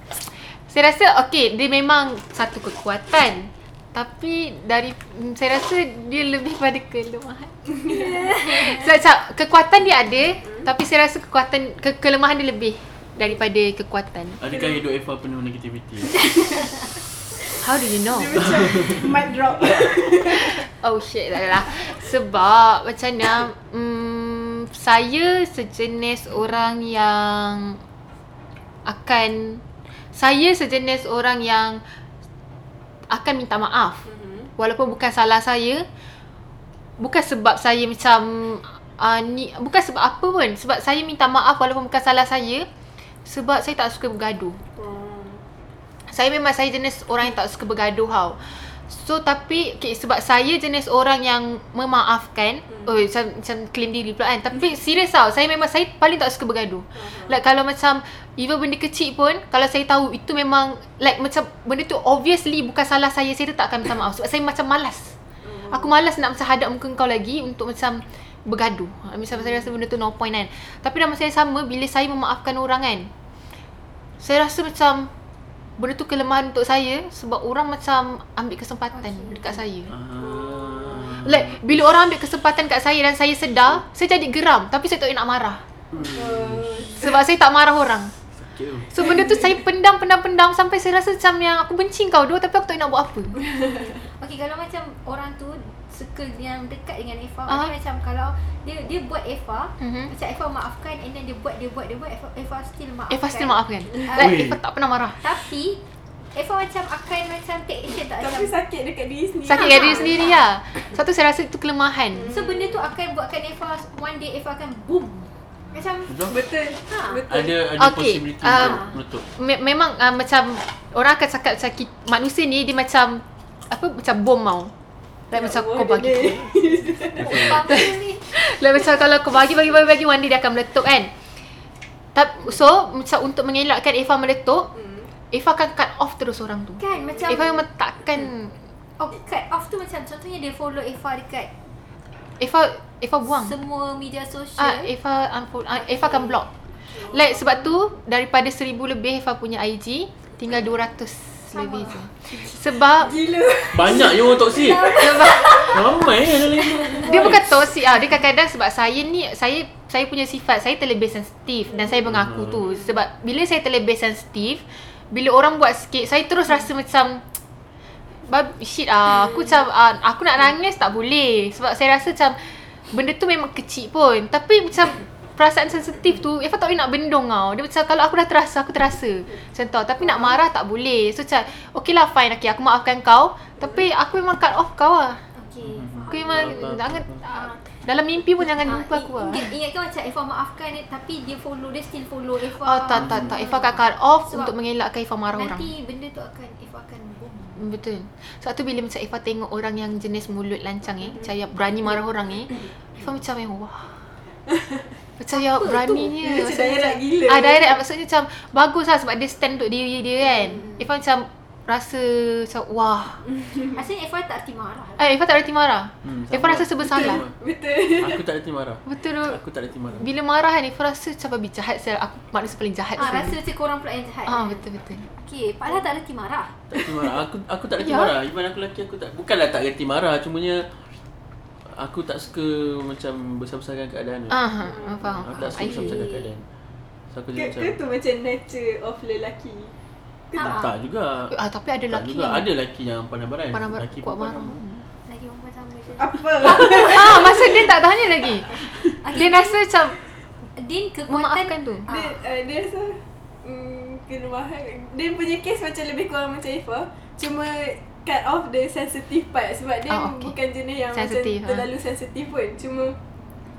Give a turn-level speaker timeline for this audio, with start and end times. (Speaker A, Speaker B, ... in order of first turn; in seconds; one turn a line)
Speaker A: 0.3-7.5
Speaker B: 7.7-8.6
Speaker C: 7.9-8.9
Speaker A: 8.4-14.4
Speaker B: 10.4-10.7
Speaker D: 14.4-16.6
Speaker B: 14.5-14.8
Speaker B: 17.5-20.7
Speaker A: 17.6-18.5
Speaker D: 18.4-19.9
Speaker A: 20.3-27.8
Speaker A: 28.9-31.8
Speaker A: 33.1-34.1
Speaker B: 34.0-34.5
Speaker A: 34.6-35.9
Speaker A: 37.0-42.7
Speaker A: 43.2-44.6
Speaker B: 44.8-45.4
Speaker A: 46.1-65.2
Speaker B: 57.0-57.4
Speaker B: 65.4-65.9
Speaker A: 65.7-73.1
Speaker A: 74.2-75.1
Speaker A: 75.8-79.9
Speaker C: 79.0-79.6
Speaker D: 79.9-81.8
Speaker B: 80.2-81.2
Speaker A: 81.2-85.6
Speaker D: 85.9-86.8
Speaker B: 86.0-87.2
Speaker A: 87.0-88.1
Speaker D: 88.4-88.9
Speaker A: 88.9-93.4
Speaker B: 89.0-89.6
Speaker B: 93.4-94.0
Speaker C: 94.2-104.4
Speaker A: 99.8-100.1
Speaker A: 103.1-105.2
Speaker D: 104.2-104.6
Speaker C: 105.2-105.8
Speaker C: 106.3-108.6
Speaker B: 107.9-110.2
Speaker A: 109.4-112.3
Speaker C: 109.5-110.4
Speaker B: 112.1-112.8
Speaker C: 112.3-116.2
Speaker D: 116.1-116.4
Speaker B: 116.3-117.6
Speaker C: 116.9-117.2
Speaker D: 117.3-119.3
Speaker A: 117.8-118.8
Speaker C: 118.5-119.0
Speaker A: 119.4-124.7
Speaker A: 125.3-126.8
Speaker B: 125.3-127.6
Speaker D: 127.1-127.7
Speaker C: 127.2-128.3
Speaker A: 127.4-131.1
Speaker A: 132.1-134.7
Speaker B: 134.7-135.1
Speaker A: 135.3-138.6
Speaker C: 136.8-137.6
Speaker B: 137.0-137.5
Speaker C: 139.0-141.5
Speaker A: 142.4-143.5
Speaker C: 143.3-144.9
Speaker A: 144.6-146.5
Speaker C: 145.8-146.4
Speaker B: 146.9-147.5
Speaker A: 147.1-153.2
Speaker C: 151.5-152.5
Speaker B: 152.8-155.7
Speaker D: 153.7-157.5
Speaker C: 153.8-156.0
Speaker A: 155.0-155.9
Speaker B: 156.6-157.4
Speaker A: 157.0-167.3
Speaker D: 162.0-162.6
Speaker A: 168.2-185.2
Speaker B: 180.0-180.3
Speaker C: 185.3-187.6
Speaker D: 185.6-187.2
Speaker A: 186.1-189.5
Speaker C: 188.6-194.5
Speaker A: 192.6-195.7
Speaker D: 192.9-193.4
Speaker C: 195.3-197.7
Speaker A: 197.6-204.0
Speaker B: 204.5-204.9
Speaker A: 205.2-213.2
Speaker C: 205.3-206.1
Speaker B: 206.1-207.8
Speaker B: 213.3-213.8
Speaker C: 213.7-215.1
Speaker A: 215.0-217.2
Speaker D: 216.0-217.4
Speaker B: 216.9-218.2
Speaker D: 217.9-220.1
Speaker A: 218.9-219.4
Speaker A: 219.9-223.4
Speaker C: 223.0-224.6
Speaker A: 224.3-225.1
Speaker C: 225.2-226.5
Speaker D: 226.7-230.9
Speaker A: 227.8-228.1
Speaker D: 231.7-234.4
Speaker A: 234.3-236.0
Speaker B: 234.7-235.2
Speaker D: 235.2-236.4
Speaker C: 235.3-236.2
Speaker D: 237.1-237.8
Speaker B: 237.3-239.7
Speaker B: 240.3-240.6
Speaker C: 240.4-240.7
Speaker D: 240.4-241.4
Speaker A: 241.3-242.5
Speaker D: 241.9-244.6
Speaker A: 243.5-244.8
Speaker C: 245.1-247.4
Speaker B: 246.0-247.7
Speaker A: 246.4-250.0
Speaker C: 248.8-249.6
Speaker C: 250.6-252.2
Speaker A: 251.1-251.9
Speaker B: 251.9-263.0
Speaker A: 259.9-260.3
Speaker A: 260.9-261.7